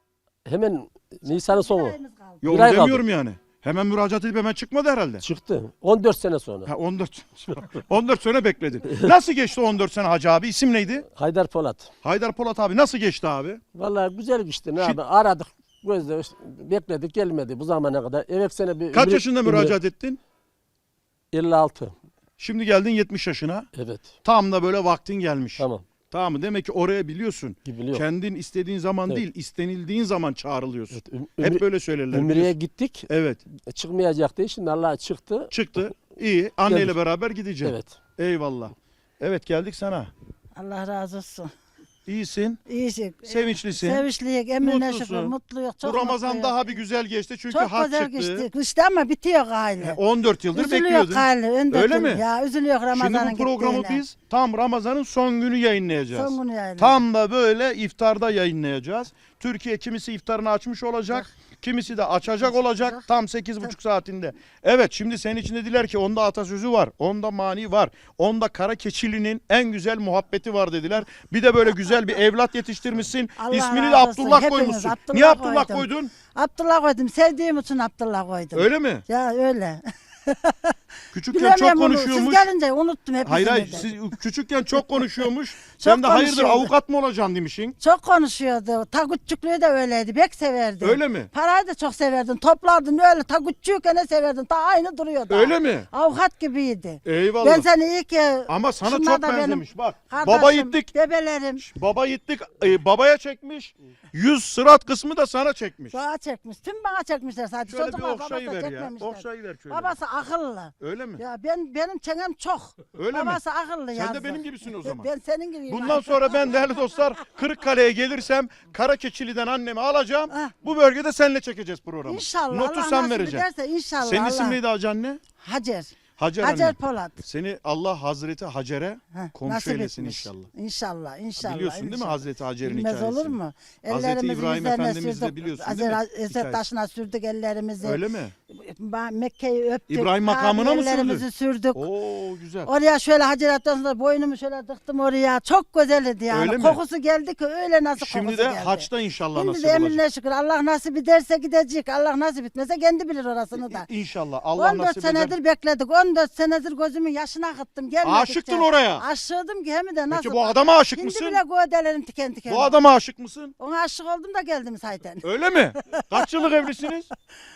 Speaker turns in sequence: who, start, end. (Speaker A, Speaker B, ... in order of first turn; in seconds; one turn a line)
Speaker A: 0.5-2.0
Speaker B: 1.3-2.5
Speaker C: 2.4-5.2
Speaker A: 2.5-3.0
Speaker A: 5.2-6.7
Speaker C: 6.7-11.1
Speaker A: 8.9-9.2
Speaker A: 11.1-11.9
Speaker C: 12.0-13.6
Speaker A: 13.7-19.8
Speaker C: 18.9-20.2
Speaker A: 21.3-21.9
Speaker C: 22.4-23.7
Speaker A: 23.8-24.1
Speaker C: 24.2-32.5
Speaker A: 25.6-25.9
Speaker A: 27.7-28.0
Speaker A: 30.9-33.1
Speaker C: 33.1-33.4
Speaker A: 33.6-35.5
Speaker C: 35.5-40.1
Speaker A: 36.7-37.0
Speaker A: 37.6-38.0
Speaker B: 40.6-41.5
Speaker C: 42.1-42.6
Speaker B: 42.7-46.8
Speaker C: 43.3-44.0
Speaker C: 44.6-48.5
Speaker B: 47.5-50.0
Speaker C: 49.8-52.2
Speaker B: 50.5-54.0
Speaker C: 52.9-76.1
Speaker B: 56.1-57.0
Speaker B: 62.4-63.0
Speaker B: 73.4-80.8
Speaker C: 78.5-79.0
Speaker C: 81.1-82.5
Speaker B: 81.3-83.9
Speaker C: 83.2-87.8
Speaker B: 85.8-86.7
Speaker B: 87.8-101.7
Speaker C: 90.8-91.3
Speaker C: 95.3-95.9
Speaker C: 97.0-97.7
Speaker C: 98.5-100.9
Speaker C: 101.6-106.0
Speaker B: 105.9-116.7
Speaker C: 107.7-110.0
Speaker C: 110.8-111.2
Speaker C: 113.0-113.4
Speaker C: 114.0-115.1
Speaker C: 115.7-123.5
Speaker B: 122.1-124.6
Speaker C: 124.0-125.2
Speaker B: 125.4-127.2
Speaker C: 126.2-130.5
Speaker B: 129.1-141.9
Speaker C: 131.4-133.4
Speaker C: 133.9-136.6
Speaker C: 137.8-138.3
Speaker C: 139.9-142.7
Speaker B: 142.7-153.9
Speaker C: 146.3-146.8
Speaker C: 148.0-150.0
Speaker C: 153.6-155.3
Speaker B: 154.6-162.8
Speaker C: 158.0-159.0
Speaker C: 160.1-161.4
Speaker C: 162.5-163.6
Speaker B: 163.6-165.3
Speaker C: 165.2-167.1
Speaker B: 165.8-166.8